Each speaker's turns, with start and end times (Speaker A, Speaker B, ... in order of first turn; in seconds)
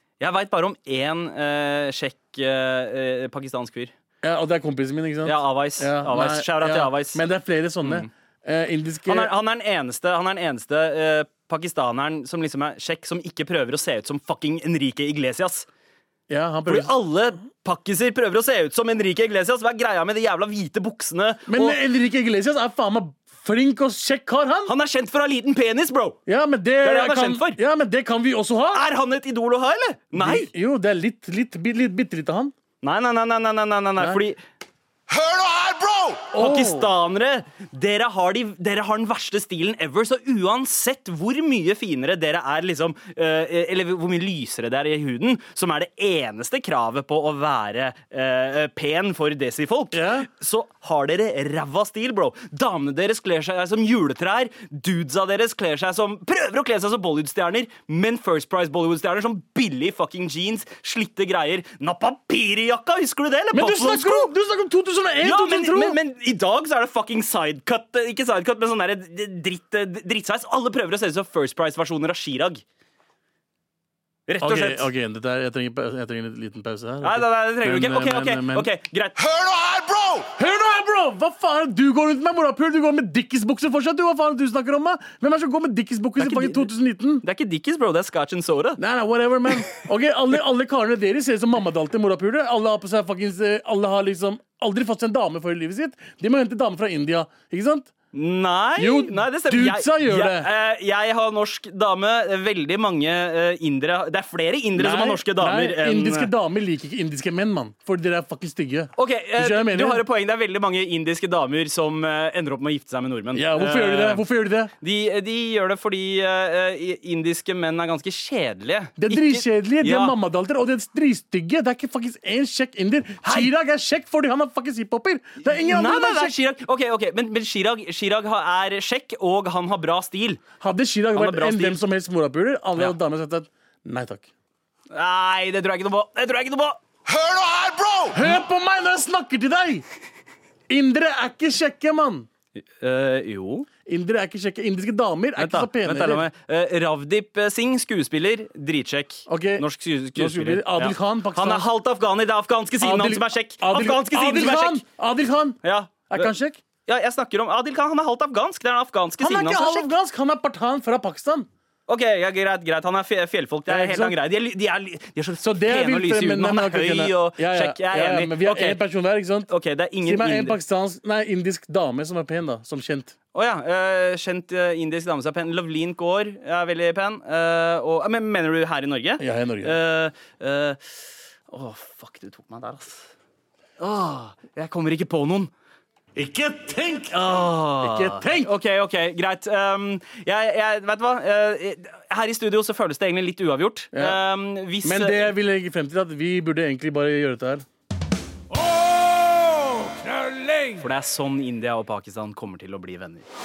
Speaker A: 0.2-3.9, 5.2-7.2, 7.8-8.1, 9.1-15.7, 16.6-21.8, 24.7-26.2, 26.8-27.6, 28.7-30.5, 32.8-34.4, 36.3-64.3, 65.2-72.6, 74.3-74.9, 77.0-79.2, 86.2-86.7, 87.2-88.8, 98.1-106.3, 109.0-114.2, 114.8-120.1, 123.2-123.5, 125.4-130.4, 131.1-131.8, 134.9-136.8, 142.6-143.7, 145.3-154.8, 155.6-156.3, 156.8-159.9, 161.9-168.8, 169.5-170.6, 173.3-180.9, 181.5-183.1, 183.8-185.5, 187.2-195.3, 200.7-203.2
Speaker B: 4.2-9.3, 16.3-16.9, 21.5-24.7, 26.2-28.8, 30.1-32.5, 36.3-36.9, 49.9-50.3, 63.5-66.0, 74.4-78.7, 80.4-87.2, 88.8-97.9, 98.8-100.5, 104.7-110.0, 113.3-114.7, 119.0-126.3, 130.6-134.3, 138.1-139.8, 140.7-142.3, 143.8-146.2, 149.3-149.6, 150.2-151.7, 152.8-155.6, 156.1-156.6, 159.2-161.5, 163.7-164.2, 165.4-169.5, 170.0-173.1, 179.2-179.7, 186.1-188.5, 193.9-194.2, 194.8-197.6, 200.0-200.6
Speaker C: 35.1-36.3, 79.2-80.3, 137.1-138.2